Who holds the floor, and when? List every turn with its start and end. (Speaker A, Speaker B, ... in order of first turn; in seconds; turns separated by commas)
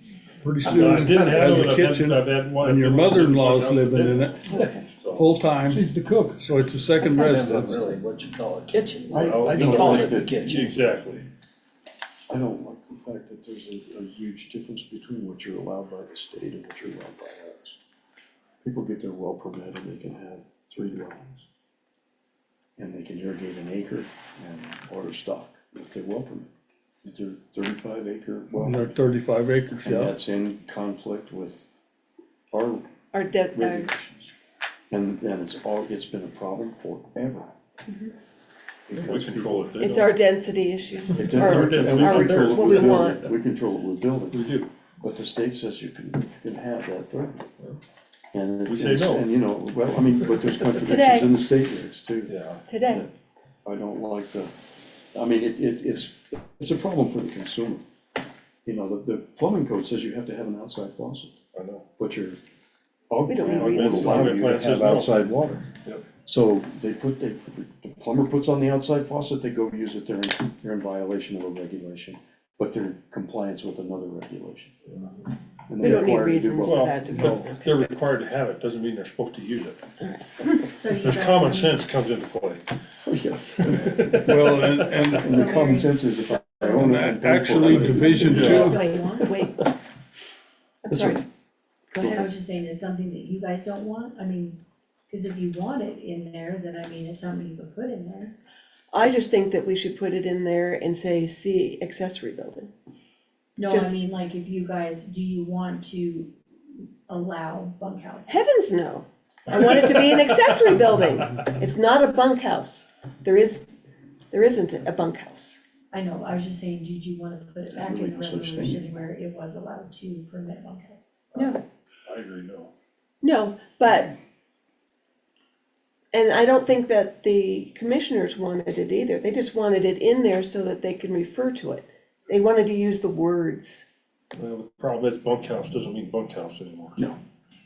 Speaker A: 0.4-4.6, Speaker B: 0.6-1.7, Speaker C: 0.7-4.4, Speaker B: 4.5-4.9, Speaker C: 5.0-5.3, Speaker A: 5.1-7.9, Speaker B: 5.7-6.4, Speaker B: 7.0-10.8, Speaker D: 9.1-10.7, Speaker C: 9.1-11.2, Speaker D: 12.3-17.8, Speaker D: 18.6-21.4, Speaker D: 22.8-26.5, Speaker D: 27.0-28.9, Speaker A: 28.6-30.1, Speaker D: 29.8-31.6, Speaker D: 32.5-32.9, Speaker E: 33.1-33.9, Speaker D: 33.5-34.3, Speaker D: 34.9-37.5, Speaker E: 37.9-38.1, Speaker D: 38.9-39.7, Speaker C: 38.9-40.1, Speaker E: 39.8-43.2, Speaker D: 41.1-44.4, Speaker C: 41.1-43.2, Speaker C: 44.3-44.7, Speaker D: 45.0-47.4, Speaker D: 48.3-52.3, Speaker C: 48.6-49.3, Speaker E: 50.7-51.3, Speaker C: 52.3-52.6, Speaker E: 52.7-53.0, Speaker D: 53.6-57.8, Speaker D: 58.6-61.3, Speaker C: 61.5-61.8, Speaker D: 62.0-62.4, Speaker D: 63.1-65.7, Speaker E: 63.3-64.4, Speaker C: 63.6-65.2, Speaker D: 66.2-74.7, Speaker D: 75.7-77.0, Speaker E: 75.8-77.6, Speaker C: 76.6-79.8, Speaker A: 77.1-77.5, Speaker E: 80.0-80.6, Speaker F: 80.7-81.8, Speaker C: 80.8-82.6, Speaker D: 83.0-88.8, Speaker C: 83.6-85.2, Speaker A: 84.2-85.5, Speaker F: 85.2-86.1, Speaker A: 86.7-88.8, Speaker F: 87.7-89.3, Speaker C: 87.7-88.8, Speaker E: 88.4-89.6, Speaker E: 90.8-91.2, Speaker D: 90.9-91.2, Speaker E: 91.9-92.3, Speaker D: 92.0-92.3, Speaker F: 92.0-98.3, Speaker E: 98.9-102.7, Speaker F: 103.6-108.5, Speaker E: 103.7-104.0, Speaker E: 108.3-113.7, Speaker E: 114.3-115.6, Speaker F: 115.9-121.6, Speaker D: 117.7-119.0, Speaker C: 121.3-122.7, Speaker E: 123.2-124.2, Speaker E: 126.1-133.8, Speaker C: 134.3-137.1